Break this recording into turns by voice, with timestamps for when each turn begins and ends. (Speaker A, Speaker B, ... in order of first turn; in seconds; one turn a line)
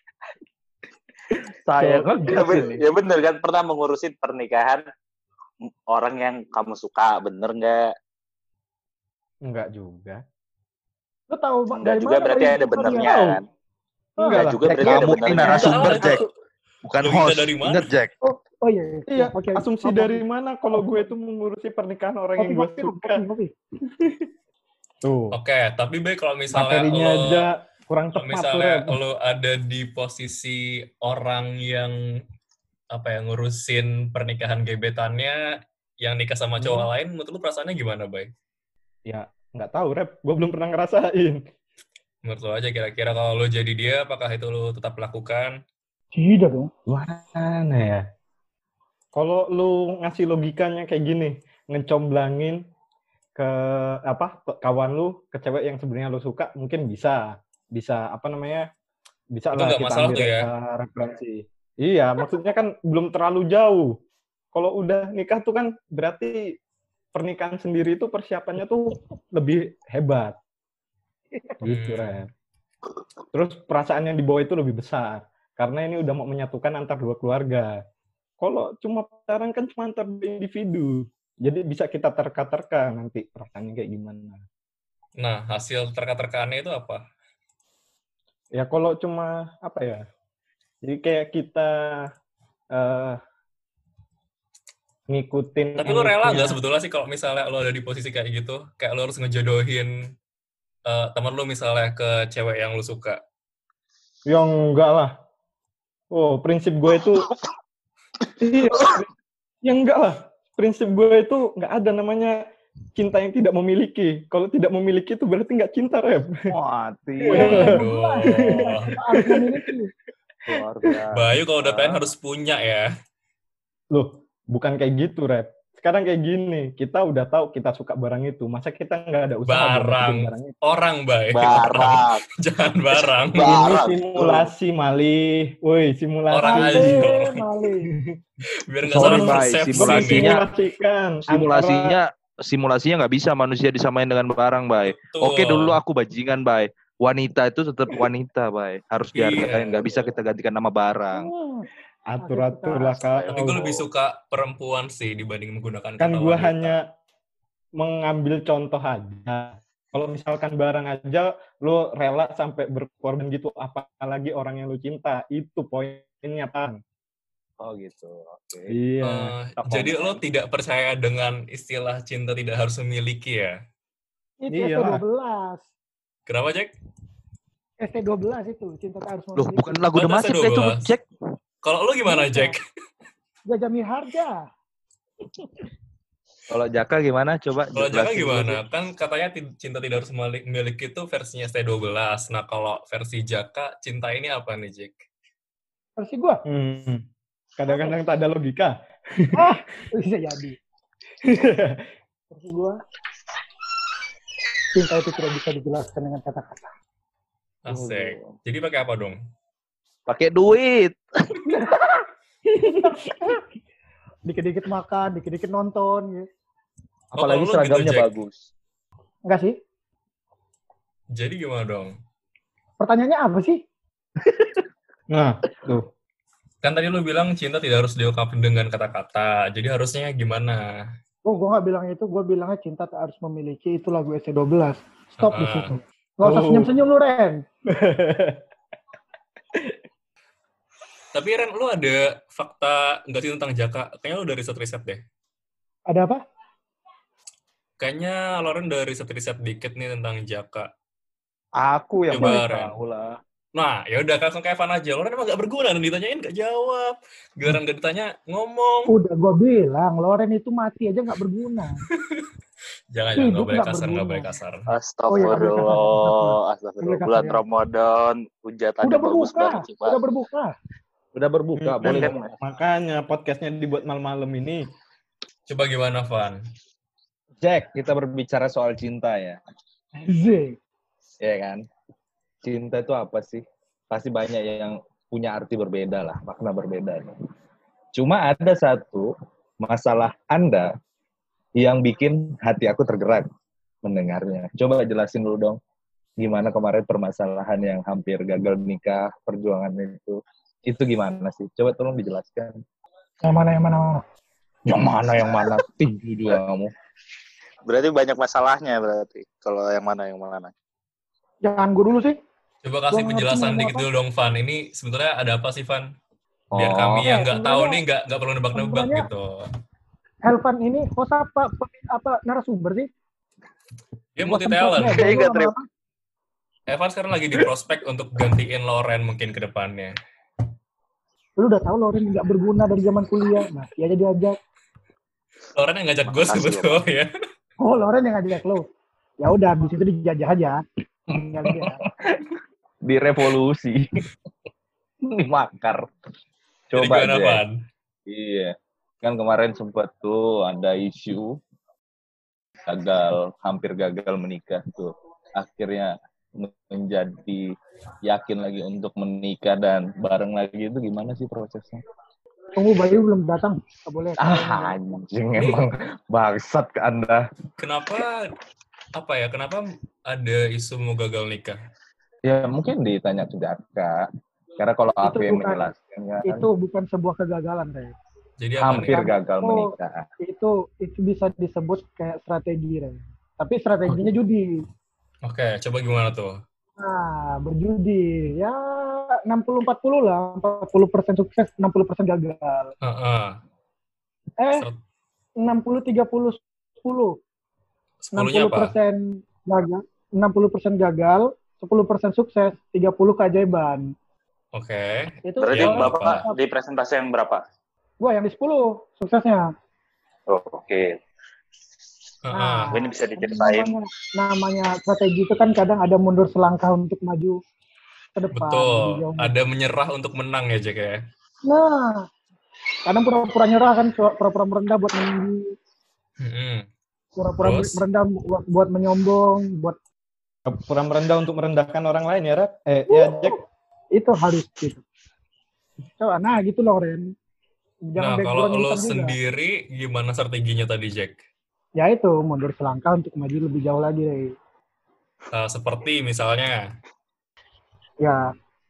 Speaker A: 1.6-2.8
Speaker B: 1.8-2.5
Speaker C: 2.2-4.8
Speaker C: 5.9-7.9
Speaker B: 9.4-10.2
Speaker D: 11.3-13.1
Speaker C: 11.8-13.4
Speaker B: 12.9-13.4
Speaker D: 14.2-14.4
Speaker B: 14.2-16.2
Speaker C: 14.3-15.9
Speaker A: 14.6-16.2
Speaker E: 15.4-16.3
Speaker A: 16.8-18.1
Speaker E: 17.0-17.9
Speaker D: 18.2-20.2
Speaker B: 19.1-23.2
Speaker D: 20.7-21.0
Speaker D: 22.4-23.5
Speaker B: 24.0-24.2
Speaker B: 25.0-25.4
Speaker E: 25.3-27.5
Speaker B: 26.5-29.0
Speaker E: 28.2-31.9
Speaker E: 32.9-35.4
Speaker E: 36.0-38.3
Speaker B: 36.6-36.9
Speaker B: 39.0-41.4
Speaker E: 42.2-45.6
Speaker D: 46.1-46.7
Speaker B: 46.9-48.0
Speaker B: 49.1-52.6
Speaker B: 53.4-58.7
Speaker B: 59.3-64.0
Speaker E: 59.5-60.5
Speaker B: 64.5-66.5
Speaker B: 67.1-70.4
Speaker B: 71.6-72.3
Speaker E: 71.6-72.1
Speaker B: 73.3-77.7
Speaker B: 78.4-84.4
Speaker E: 85.2-87.0
Speaker B: 88.5-90.0
Speaker B: 90.8-92.1
Speaker B: 92.7-93.2
Speaker B: 95.1-96.6
Speaker E: 95.8-99.9
Speaker E: 100.8-103.2
Speaker B: 104.3-105.1
Speaker B: 106.1-107.3
Speaker B: 108.4-109.1
Speaker B: 109.6-112.4
Speaker B: 113.0-116.3
Speaker A: 116.5-117.7
Speaker D: 117.2-119.9
Speaker B: 117.2-119.6
Speaker E: 117.3-118.9
Speaker A: 120.5-122.1
Speaker E: 121.1-122.8
Speaker B: 123.9-130.5
Speaker E: 129.5-133.7
Speaker C: 131.3-132.2
Speaker C: 133.0-134.4
Speaker B: 133.3-137.1
Speaker E: 136.3-137.4
Speaker D: 136.4-137.9
Speaker B: 137.9-138.2
Speaker E: 138.7-140.4
Speaker B: 138.9-142.0
Speaker A: 138.9-140.4
Speaker A: 141.3-151.3
Speaker E: 144.8-145.8
Speaker E: 149.1-150.1
Speaker D: 151.1-151.7
Speaker B: 152.1-153.8
Speaker D: 152.2-152.9
Speaker E: 153.3-156.7
Speaker B: 156.0-156.8
Speaker B: 157.8-166.8
Speaker A: 167.6-168.8
Speaker B: 168.7-169.3
Speaker E: 169.0-173.5
Speaker A: 169.6-170.2
Speaker D: 174.4-175.7
Speaker B: 174.5-175.0
Speaker E: 176.3-176.7
Speaker D: 177.8-179.8
Speaker A: 179.3-181.0
Speaker E: 179.9-180.8
Speaker E: 181.6-182.6
Speaker D: 182.1-182.6
Speaker D: 183.5-184.4
Speaker A: 186.5-188.6
Speaker E: 187.7-194.9
Speaker D: 196.0-196.4
Speaker B: 196.4-197.0
Speaker B: 197.6-199.5
Speaker D: 199.3-200.6
Speaker B: 201.2-201.8
Speaker D: 202.3-202.8
Speaker D: 204.7-206.7
Speaker E: 207.6-209.2
Speaker A: 207.7-208.3
Speaker A: 210.1-211.5
Speaker B: 212.5-213.3
Speaker D: 212.8-213.3
Speaker D: 214.2-216.3
Speaker E: 217.1-218.1
Speaker A: 217.1-218.5
Speaker D: 219.3-219.6
Speaker E: 221.1-221.9
Speaker D: 222.8-223.6
Speaker A: 224.2-224.6
Speaker B: 225.1-225.9
Speaker E: 226.6-230.6
Speaker D: 231.2-237.4
Speaker E: 235.2-235.7
Speaker B: 236.2-236.7
Speaker B: 237.7-238.4
Speaker E: 241.1-245.0
Speaker D: 245.9-246.2
Speaker E: 247.8-250.7
Speaker A: 251.6-253.2
Speaker E: 252.1-252.8
Speaker E: 253.6-258.9
Speaker D: 258.9-261.8
Speaker E: 262.9-264.6
Speaker D: 263.2-264.3
Speaker C: 264.7-270.0
Speaker D: 265.1-267.4
Speaker D: 268.8-270.5
Speaker A: 271.1-272.2
Speaker B: 271.6-274.6
Speaker C: 271.8-272.3
Speaker E: 275.5-276.4
Speaker A: 277.4-279.4
Speaker D: 280.0-280.6
Speaker A: 281.2-281.6
Speaker A: 282.4-287.1
Speaker A: 287.9-289.1
Speaker A: 289.6-290.7
Speaker A: 291.6-293.3
Speaker A: 293.8-295.6
Speaker A: 296.2-302.6
Speaker D: 303.2-304.0
Speaker A: 304.7-306.7
Speaker C: 307.6-310.5
Speaker D: 311.4-312.2
Speaker E: 312.6-315.9
Speaker D: 312.9-313.8
Speaker A: 316.5-317.1
Speaker E: 316.6-319.4
Speaker D: 317.0-317.8
Speaker D: 318.5-319.1
Speaker D: 320.2-322.9
Speaker E: 324.2-325.2
Speaker D: 324.2-325.6
Speaker A: 324.9-325.5
Speaker E: 326.7-329.9
Speaker D: 331.4-334.4
Speaker E: 335.6-337.1
Speaker C: 336.1-336.8
Speaker D: 337.6-338.6
Speaker D: 339.2-341.8
Speaker A: 341.4-343.9
Speaker A: 345.0-345.8
Speaker A: 346.7-347.4
Speaker E: 346.7-347.6
Speaker A: 348.1-351.4
Speaker A: 352.7-357.5
Speaker A: 358.0-361.8
Speaker D: 362.6-364.9
Speaker A: 364.2-367.2
Speaker E: 367.6-368.3
Speaker E: 368.9-371.6
Speaker A: 372.2-374.1
Speaker A: 374.6-376.5
Speaker D: 375.0-375.7
Speaker D: 376.2-377.9
Speaker E: 378.4-379.0
Speaker A: 378.6-380.1
Speaker D: 378.9-379.7
Speaker D: 380.2-384.5
Speaker E: 385.2-386.4
Speaker D: 386.8-392.7
Speaker E: 392.8-393.4
Speaker D: 394.4-394.6
Speaker D: 395.4-397.1
Speaker E: 398.1-398.7
Speaker D: 398.1-403.9
Speaker E: 404.5-406.2
Speaker D: 405.2-406.4
Speaker C: 405.4-407.4
Speaker D: 408.0-409.5
Speaker C: 410.3-411.0
Speaker E: 412.2-412.7
Speaker D: 412.3-417.4
Speaker C: 412.7-413.7
Speaker D: 418.1-419.3
Speaker E: 418.3-421.0
Speaker D: 421.5-422.1
Speaker D: 422.9-425.5
Speaker E: 426.2-426.6
Speaker D: 427.2-429.8
Speaker E: 427.4-427.8
Speaker B: 430.4-433.4
Speaker D: 432.9-433.4
Speaker D: 433.9-434.8
Speaker D: 436.0-437.1
Speaker D: 437.9-439.1
Speaker E: 438.0-441.2
Speaker D: 441.8-444.3
Speaker E: 445.3-446.6
Speaker D: 448.0-448.3